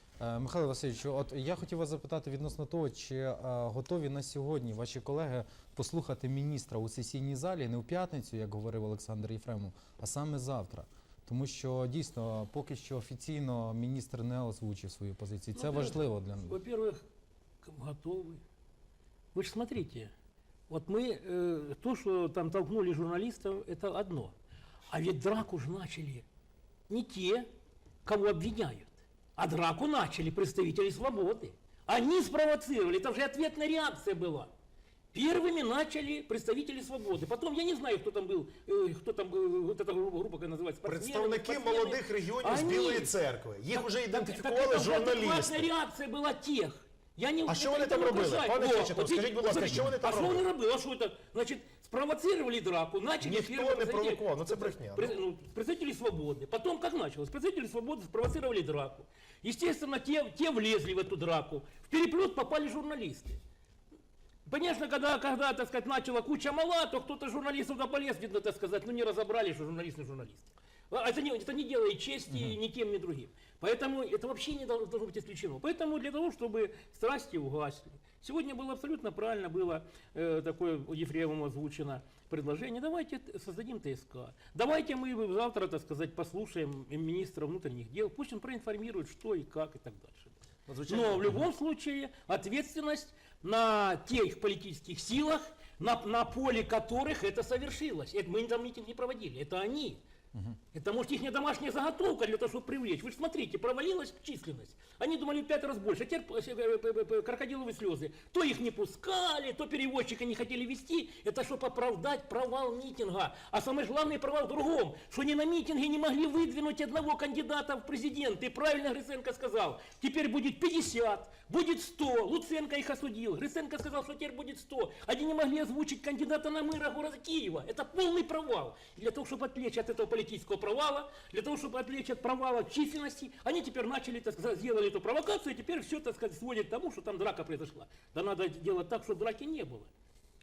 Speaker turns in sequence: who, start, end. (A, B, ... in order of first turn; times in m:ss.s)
0:00.2-0:16.6 A
0:15.6-0:17.0 B
0:17.6-0:18.4 B
0:19.3-0:20.1 B
0:20.7-0:24.4 B
0:24.9-0:26.2 B
0:26.9-0:27.5 B
0:28.0-0:34.5 B
0:35.1-0:43.2 B
0:40.8-0:45.7 C
0:43.7-1:03.4 B
0:47.5-0:50.5 C
0:53.2-0:55.2 C
1:04.5-1:40.0 B
1:30.7-1:31.4 C
1:40.7-2:19.9 B